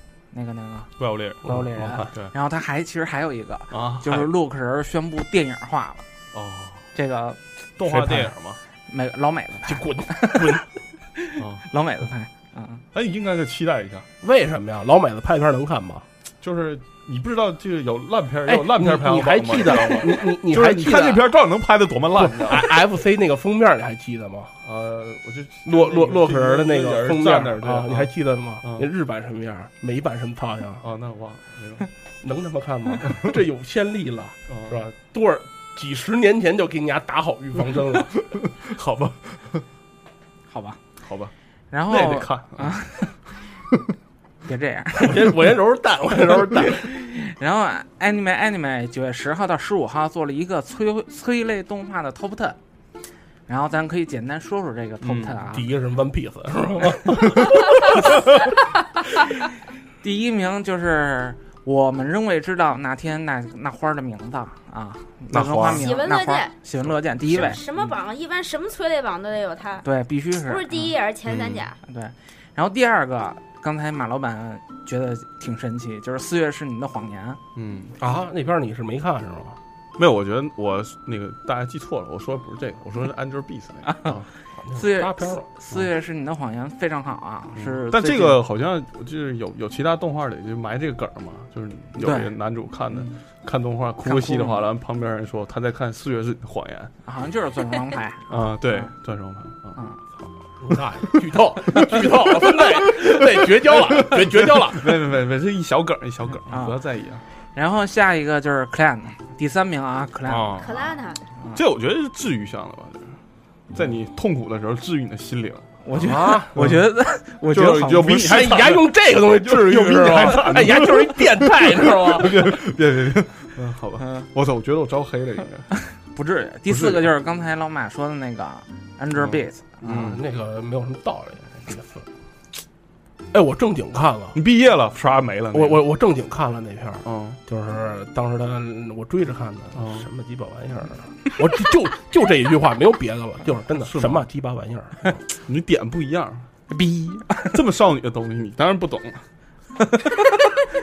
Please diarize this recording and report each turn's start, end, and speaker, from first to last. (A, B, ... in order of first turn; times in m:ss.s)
0:00.3-0:00.9 A
0:01.0-0:02.3 B
0:01.4-0:06.0 A
0:01.4-0:02.0 C
0:03.7-0:04.3 B
0:06.3-0:06.9 B
0:06.9-0:08.3 A
0:07.8-0:08.6 B
0:08.9-0:10.6 A
0:09.6-0:10.6 C
0:11.2-0:12.8 A
0:11.4-0:11.6 B
0:12.9-0:14.1 B
0:14.2-0:16.1 C
0:16.4-0:22.8 B
0:18.4-0:21.3 C
0:22.1-0:24.6 C
0:24.6-0:28.1 B
0:25.6-0:30.8 C
0:28.6-0:28.9 B
0:30.8-0:31.9 B
0:32.2-0:38.1 C
0:34.5-0:34.8 B
0:38.5-0:39.6 B
0:40.5-0:40.8 A
0:41.0-0:41.3 B
0:41.7-0:43.1 A
0:41.9-0:42.8 B
0:44.4-0:45.3 A
0:45.0-0:46.9 C
0:46.8-0:52.6 A
0:53.5-0:55.6 A
0:55.0-0:55.4 B
0:55.5-0:57.8 C
1:00.0-1:07.6 A
1:05.3-1:05.8 B
1:05.8-1:06.5 D
1:06.8-1:07.4 B
1:07.3-1:09.9 D
1:09.8-1:10.9 A
1:10.4-1:11.8 D
1:11.3-1:11.7 B
1:11.8-1:17.4 A
1:17.5-1:18.0 B
1:18.0-1:19.6 C
1:20.0-1:24.3 B
1:24.6-1:25.5 C
1:24.7-1:28.4 A
1:27.6-1:36.9 B
1:32.0-1:32.3 A
1:34.0-1:34.6 A
1:37.0-1:38.9 A
1:38.3-1:39.8 B
1:40.6-1:45.0 C
1:43.7-1:47.2 B
1:46.5-1:46.8 A
1:47.5-1:50.6 A
1:50.3-1:50.7 B
1:50.6-1:51.3 D
1:51.5-1:53.2 B
1:53.7-1:55.7 B
1:55.8-1:58.4 A
1:56.0-1:56.5 C
1:56.5-1:56.8 B
1:57.5-2:05.7 B
1:58.1-2:02.6 C
2:04.0-2:04.3 A
2:06.1-2:09.9 A
2:06.7-2:07.1 B
2:09.1-2:10.2 B
2:09.9-2:12.1 C
2:13.3-2:14.4 C
2:14.3-2:15.8 B
2:15.5-2:25.2 C
2:17.0-2:17.4 B
2:19.7-2:20.0 B
2:23.8-2:24.2 B
2:25.4-2:26.4 B
2:26.7-2:27.5 A
2:27.5-2:29.2 B